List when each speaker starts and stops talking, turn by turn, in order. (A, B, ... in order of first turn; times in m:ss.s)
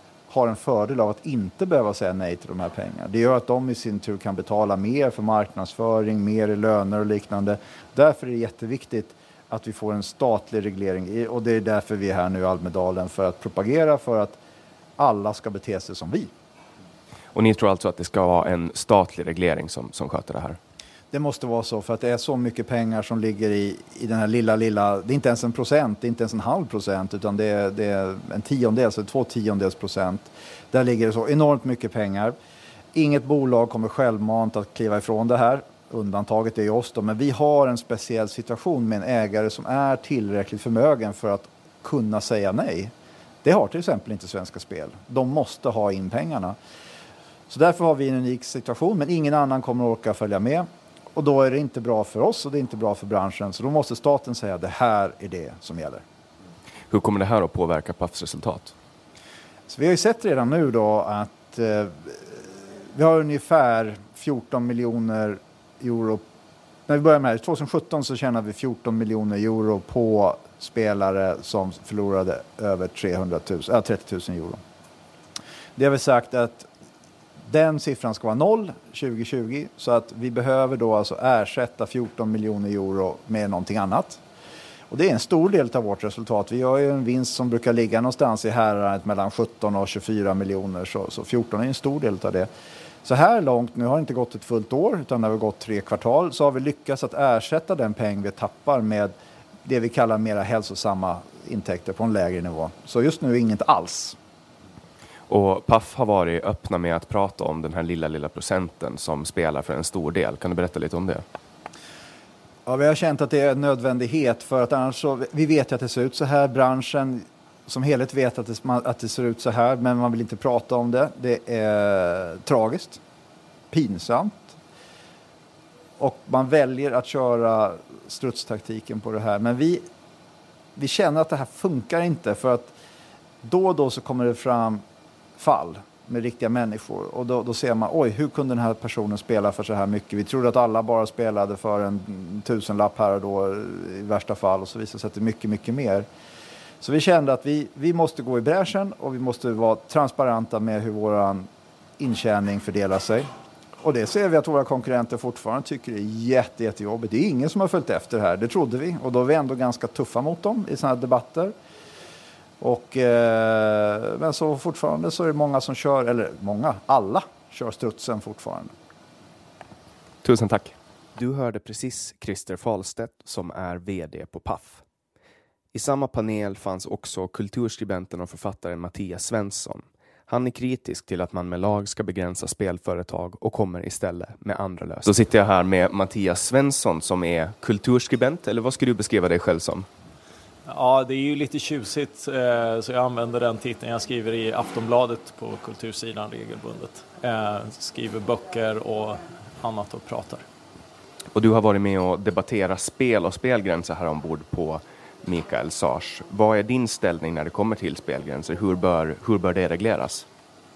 0:00.3-0:14.4 A
0:15.0-0:16.3 A
0:17.3-0:20.6 B
0:21.1-0:32.3 A
0:32.9-0:42.9 A
0:43.4-0:46.6 A
0:47.5-0:56.0 A
0:56.9-0:58.7 B
0:59.7-1:06.2 A
1:06.9-1:14.6 A
1:15.8-1:16.7 A
1:17.5-1:24.2 A
1:24.9-1:32.5 A
1:33.0-1:44.2 A
1:45.3-1:51.2 B
1:52.6-2:03.0 A
2:03.7-2:04.6 A
2:06.0-2:09.9 A
2:10.8-2:12.7 A
2:13.4-2:14.8 A
2:15.4-2:26.1 A
2:26.8-2:31.5 A
2:32.0-2:33.3 A
2:33.8-2:41.5 A
2:42.6-2:48.7 A
2:50.2-2:54.8 B
2:55.7-3:09.9 B
3:10.6-3:20.4 C
3:21.3-3:30.3 B